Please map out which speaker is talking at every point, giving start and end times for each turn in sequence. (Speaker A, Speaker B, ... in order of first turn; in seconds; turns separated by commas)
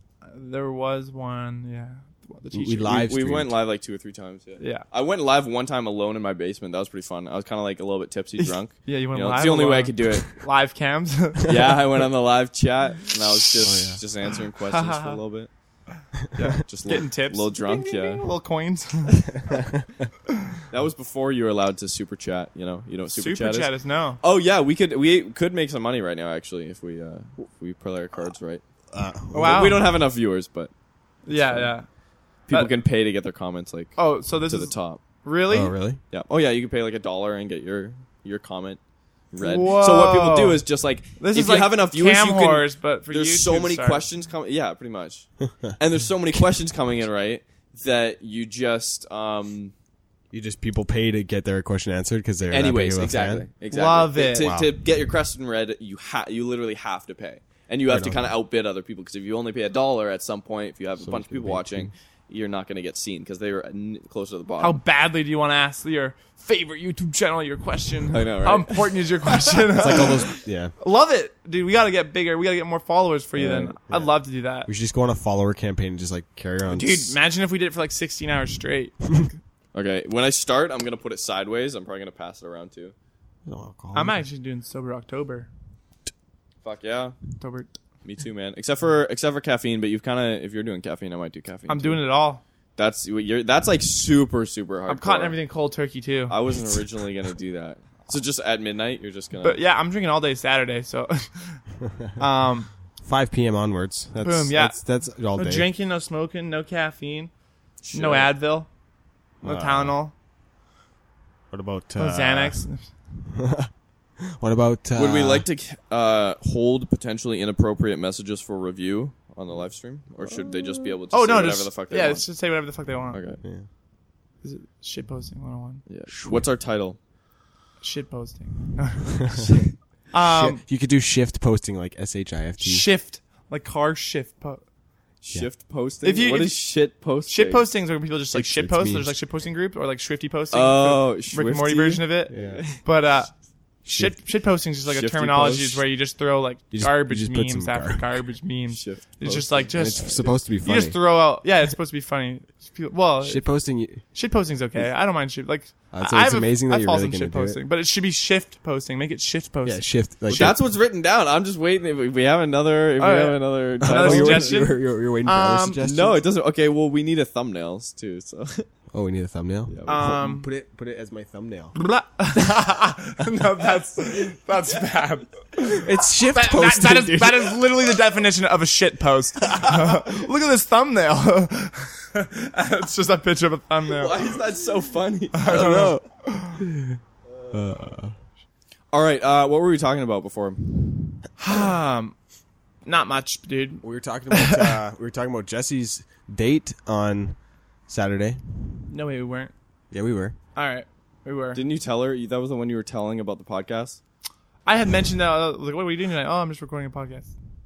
Speaker A: 0.2-3.0, Speaker B: 2.5-3.5, Speaker C: 2.9-10.4, Speaker A: 4.6-4.8, Speaker A: 8.8-11.9, Speaker C: 11.4-15.5, Speaker B: 13.6-14.0, Speaker A: 14.7-15.2, Speaker A: 16.4-19.5, Speaker C: 16.7-18.2, Speaker C: 20.7-28.6, Speaker A: 23.1-24.2, Speaker B: 28.9-29.9, Speaker A: 29.3-29.9, Speaker C: 29.4-30.7, Speaker A: 31.3-31.9, Speaker C: 31.3-31.7, Speaker C: 32.5-35.0, Speaker A: 34.0-35.7, Speaker B: 35.5-36.0, Speaker C: 36.1-38.8, Speaker C: 39.3-49.7, Speaker A: 39.4-40.6, Speaker A: 41.2-44.0, Speaker B: 50.3-53.5, Speaker C: 52.5-64.8, Speaker A: 53.7-54.5, Speaker B: 54.4-54.7, Speaker B: 57.9-58.3, Speaker B: 61.0-61.9, Speaker A: 64.6-74.7, Speaker C: 68.1-69.1, Speaker B: 69.7-70.7, Speaker C: 73.4-73.8, Speaker B: 73.9-74.2, Speaker B: 74.7-77.2, Speaker A: 76.7-79.4, Speaker C: 79.7-82.9, Speaker B: 83.5-84.2, Speaker A: 83.9-85.5, Speaker C: 86.6-87.2, Speaker A: 87.4-87.7, Speaker C: 88.0-92.0, Speaker A: 91.7-92.4, Speaker C: 92.8-95.4, Speaker A: 94.9-96.4, Speaker C: 96.3-99.6, Speaker A: 99.4-101.6, Speaker A: 102.2-102.7, Speaker B: 103.0-105.7, Speaker A: 104.2-104.8, Speaker A: 105.4-107.3, Speaker C: 107.8-108.3, Speaker A: 107.9-108.7, Speaker A: 109.4-110.1, Speaker B: 109.4-110.0, Speaker B: 111.5-112.6, Speaker A: 112.0-112.9, Speaker B: 113.3-115.5, Speaker C: 115.0-122.3, Speaker A: 120.3-123.2, Speaker C: 123.1-123.4, Speaker A: 124.4-125.8, Speaker C: 125.9-127.0, Speaker B: 126.1-126.5, Speaker A: 127.8-129.4, Speaker C: 129.5-129.7, Speaker A: 130.1-130.6, Speaker B: 130.2-132.9, Speaker A: 132.6-134.6, Speaker C: 135.2-137.7, Speaker A: 136.0-136.6, Speaker A: 137.3-143.3, Speaker B: 138.3-139.1, Speaker C: 140.5-142.8, Speaker B: 142.3-142.7, Speaker B: 143.8-144.2, Speaker A: 143.9-153.4, Speaker C: 144.9-145.8, Speaker B: 146.7-148.0, Speaker C: 148.7-150.2, Speaker B: 149.7-151.0, Speaker B: 153.2-154.0, Speaker A: 154.1-160.6, Speaker B: 155.9-157.6, Speaker B: 159.6-160.6, Speaker C: 160.3-164.7, Speaker A: 163.0-165.8, Speaker B: 163.8-166.2, Speaker C: 165.8-168.7, Speaker B: 168.9-171.8, Speaker C: 169.7-170.0, Speaker A: 169.9-170.5, Speaker A: 171.8-184.2, Speaker B: 175.6-177.9, Speaker C: 183.9-185.6, Speaker A: 185.3-186.6, Speaker B: 185.4-188.1, Speaker C: 188.9-191.2, Speaker A: 191.4-192.2, Speaker A: 192.8-194.8, Speaker B: 193.8-197.4, Speaker B: 197.9-198.9, Speaker A: 198.9-199.5, Speaker B: 199.9-200.4, Speaker A: 200.6-201.6, Speaker C: 201.5-204.0, Speaker A: 204.7-207.3